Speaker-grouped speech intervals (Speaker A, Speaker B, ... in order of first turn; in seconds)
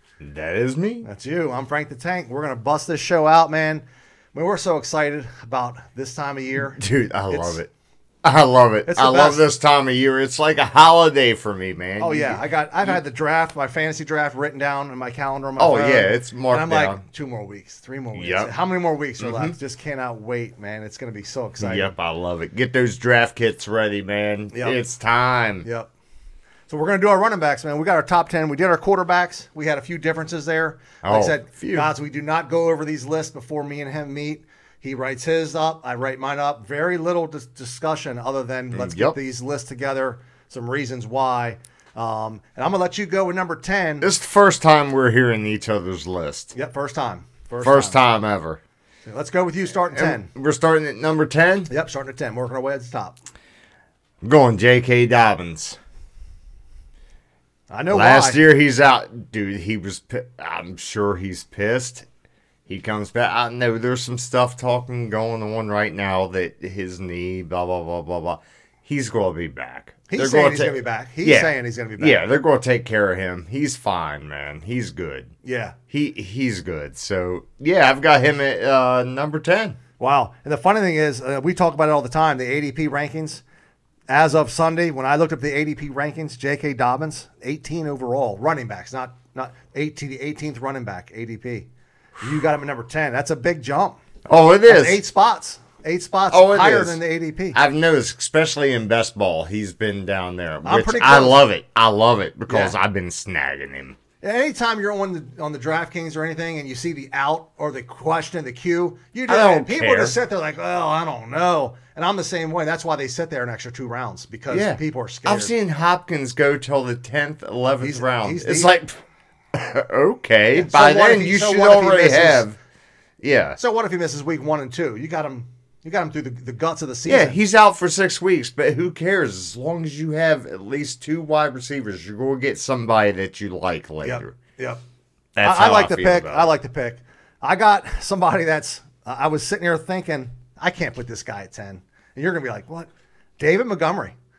Speaker A: 0.2-1.1, 6.8-7.7, 8.2-13.0, 15.6-17.0, 18.1-18.5, 19.2-19.5, 21.6-25.6, 31.0-31.9, 38.7-39.2, 44.0-46.5, 47.6-48.6, 49.9-51.7, 54.2-55.8, 57.9-62.0, 62.7-75.3, 75.9-79.8, 94.3-95.0, 96.3-97.0, 97.5-104.0, 109.3-110.2, 114.5-118.9, 119.5-122.5, 123.2-123.6, 127.0-134.3, 135.4-136.5
Speaker B: 1.0-7.6, 8.9-9.4, 12.0-21.9, 24.5-24.8, 25.6-25.9, 26.7-44.1, 46.5-48.0, 49.0-50.3, 51.7-53.2, 57.7-58.4, 70.1-72.2, 75.4-75.8, 80.0-83.4, 84.1-91.7, 92.2-94.0, 94.7-97.6, 100.6-101.4, 102.5-102.7, 104.2-115.5, 117.8-118.7, 120.5-122.5, 123.6-127.4, 134.0-134.8, 135.4-144.1